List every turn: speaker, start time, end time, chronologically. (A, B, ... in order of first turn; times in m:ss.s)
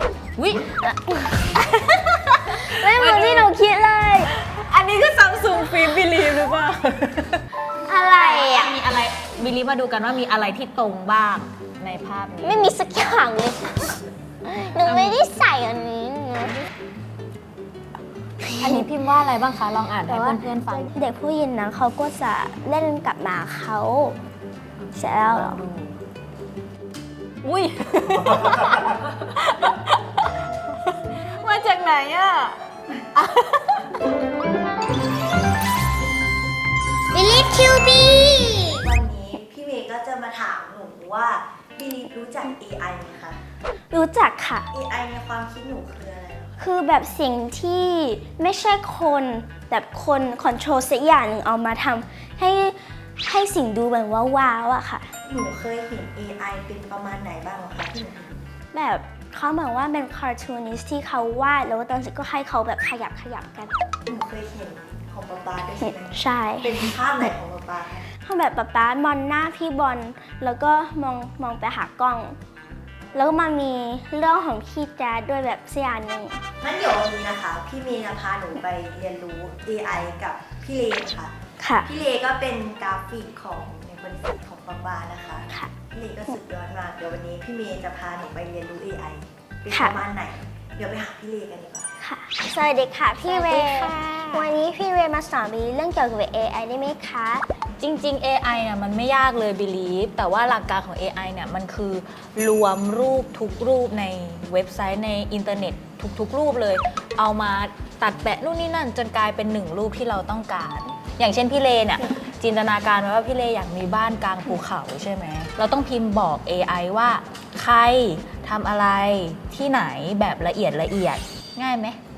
0:00.4-0:03.5 A
0:01.1-0:01.5 B
0:02.5-0:04.3 B
0:04.3-0:07.4 A
0:07.8-0:08.8 B
0:08.1-0:12.7 A
0:12.4-0:16.6 B
0:14.8-0:15.3 A
0:18.4-0:18.8 B
0:18.6-0:20.9 A
0:20.1-0:24.2 B
0:24.8-0:25.9 A
0:25.0-0:25.6 B
0:27.4-0:32.6 A
0:33.1-0:34.0 A
0:37.1-0:38.9 B
0:38.8-0:43.4 C
0:43.9-0:44.7 B
0:44.7-0:46.6 C
0:46.6-0:55.1 B
0:55.2-0:58.4 C
0:58.7-1:03.8 B
1:04.0-1:08.0 C
1:06.0-1:06.9 B
1:08.1-1:12.4 B
1:13.1-1:16.4 B
1:16.6-1:21.3 C
1:21.6-1:21.9 B
1:21.8-1:31.9 C
1:29.7-1:30.0 B
1:32.0-1:37.4 B
1:33.2-1:34.6 A
1:37.8-2:02.0 A